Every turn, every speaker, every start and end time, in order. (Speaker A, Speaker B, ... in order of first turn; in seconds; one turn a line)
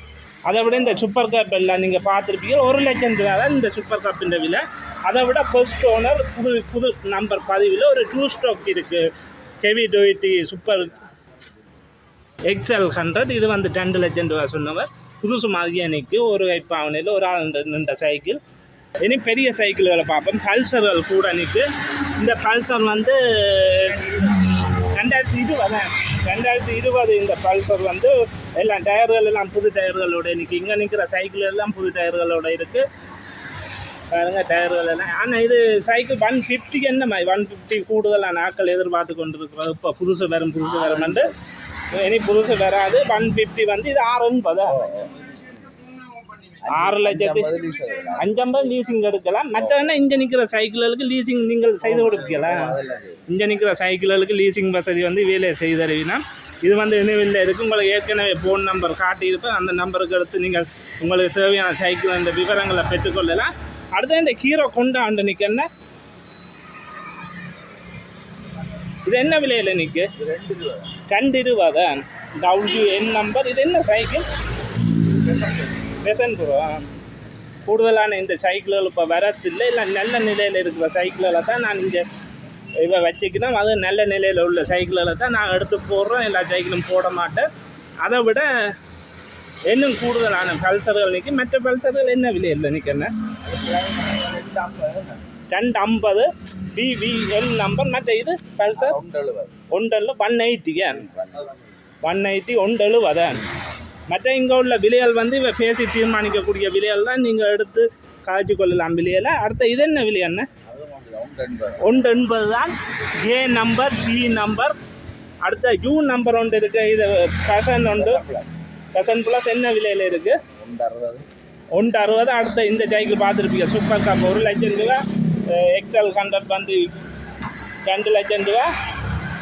Speaker A: 0.5-9.1
Speaker A: 9.6-11.0
Speaker A: 12.5-18.4
Speaker A: 19.0-21.6
Speaker A: 22.2-32.8
Speaker A: 34.1-41.3
Speaker B: 40.6-41.3
Speaker A: 41.9-44.8
Speaker B: 44.6-45.5
Speaker B: 46.4-48.3
Speaker A: 46.7-47.5
Speaker A: 48.2-52.7
Speaker B: 49.5-49.9
Speaker B: 51.8-53.2
Speaker A: 53.3-65.7
Speaker A: 69.0-70.1
Speaker B: 70.2-71.0
Speaker A: 71.1-74.2
Speaker B: 75.0-76.0
Speaker A: 76.0-76.9
Speaker A: 77.7-82.0
Speaker A: 82.8-87.5
Speaker A: 88.0-88.5
Speaker A: 89.7-93.1
Speaker B: 93.4-95.2
Speaker A: 95.5-99.0
Speaker B: 98.8-99.6
Speaker A: 99.7-101.0
Speaker B: 100.9-101.6
Speaker A: 102.0-103.4
Speaker A: 104.1-110.5
Speaker B: 110.7-112.1
Speaker A: 111.8-114.8
Speaker A: 115.4-118.2
Speaker B: 117.9-118.6
Speaker A: 118.9-120.4
Speaker B: 120.6-121.2
Speaker A: 121.7-127.0
Speaker A: 127.8-128.7